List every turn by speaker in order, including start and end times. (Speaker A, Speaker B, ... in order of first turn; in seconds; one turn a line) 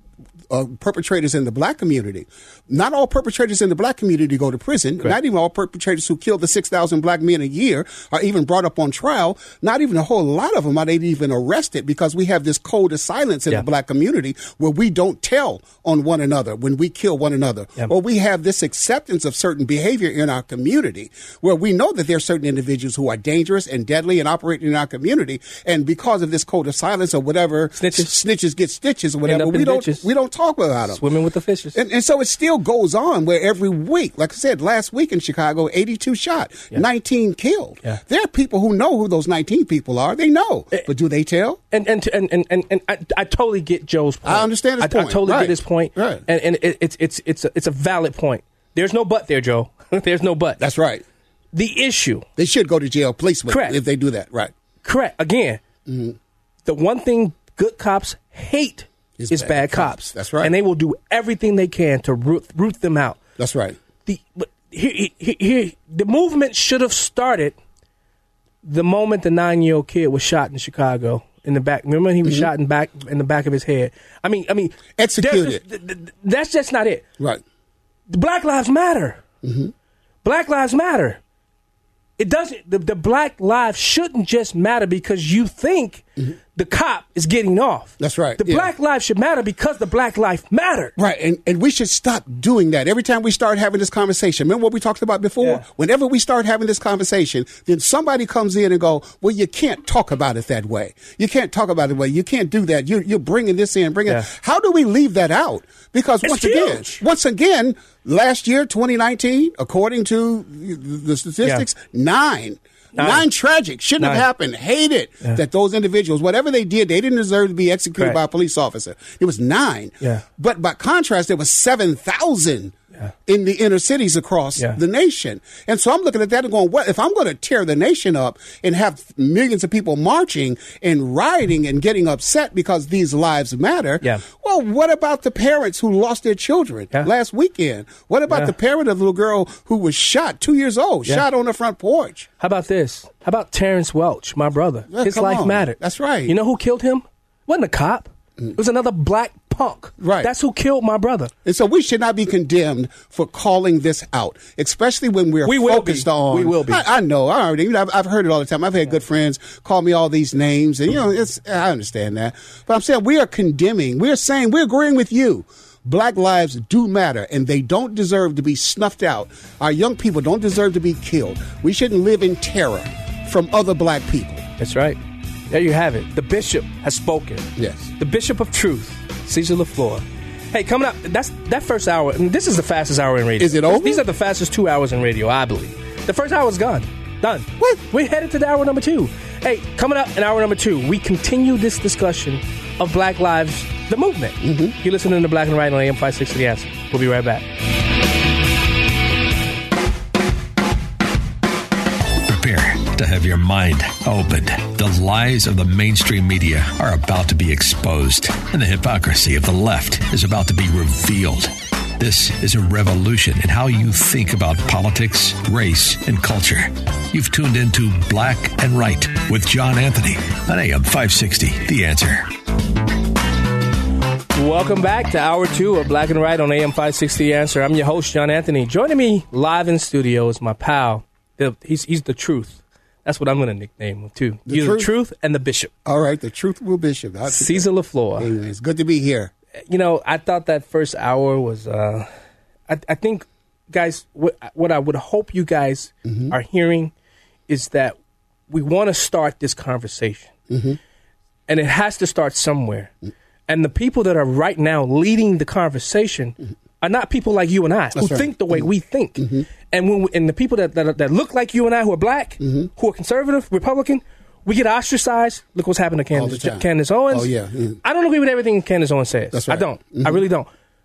Speaker A: 0.5-31.0
Speaker B: 27.8-28.1
Speaker B: 29.2-30.1
Speaker B: 30.9-31.8
Speaker A: 31.7-41.6
Speaker B: 41.7-50.6
Speaker A: 44.2-46.2
Speaker A: 50.6-51.0
Speaker B: 51.5-52.2
Speaker A: 52.4-54.5
Speaker B: 53.5-53.8
Speaker B: 54.8-55.6
Speaker A: 55.9-56.2
Speaker B: 56.6-63.2
Speaker A: 59.2-60.5
Speaker A: 63.4-63.8
Speaker B: 64.0-67.6
Speaker B: 68.6-77.0
Speaker A: 75.0-75.6
Speaker B: 78.1-79.2
Speaker A: 79.4-79.7
Speaker B: 80.2-81.2
Speaker B: 82.2-86.0
Speaker B: 86.5-90.9
Speaker A: 88.0-88.7
Speaker A: 91.0-142.3
Speaker B: 106.2-106.9
Speaker B: 112.9-113.2
Speaker B: 114.0-114.2
Speaker B: 142.4-151.3
Speaker A: 144.9-146.3
Speaker A: 150.0-150.3
Speaker A: 151.4-174.4
Speaker B: 155.4-156.8
Speaker B: 174.6-175.0
Speaker B: 175.5-177.5
Speaker A: 177.6-177.9
Speaker B: 178.0-197.4
Speaker A: 183.4-184.1
Speaker A: 194.4-194.8
Speaker C: 202.2-222.3
Speaker B: 224.3-235.7
Speaker A: 234.4-234.9
Speaker A: 235.8-239.3
Speaker B: 237.3-238.3
Speaker B: 239.7-242.1
Speaker B: 242.7-246.9
Speaker A: 246.0-246.3
Speaker B: 247.5-248.0
Speaker B: 248.5-250.3
Speaker A: 250.5-250.8
Speaker B: 251.5-252.9
Speaker B: 253.5-267.3
Speaker A: 257.9-259.5
Speaker A: 262.4-262.7
Speaker A: 266.1-267.8
Speaker B: 267.8-270.5
Speaker A: 269.3-270.2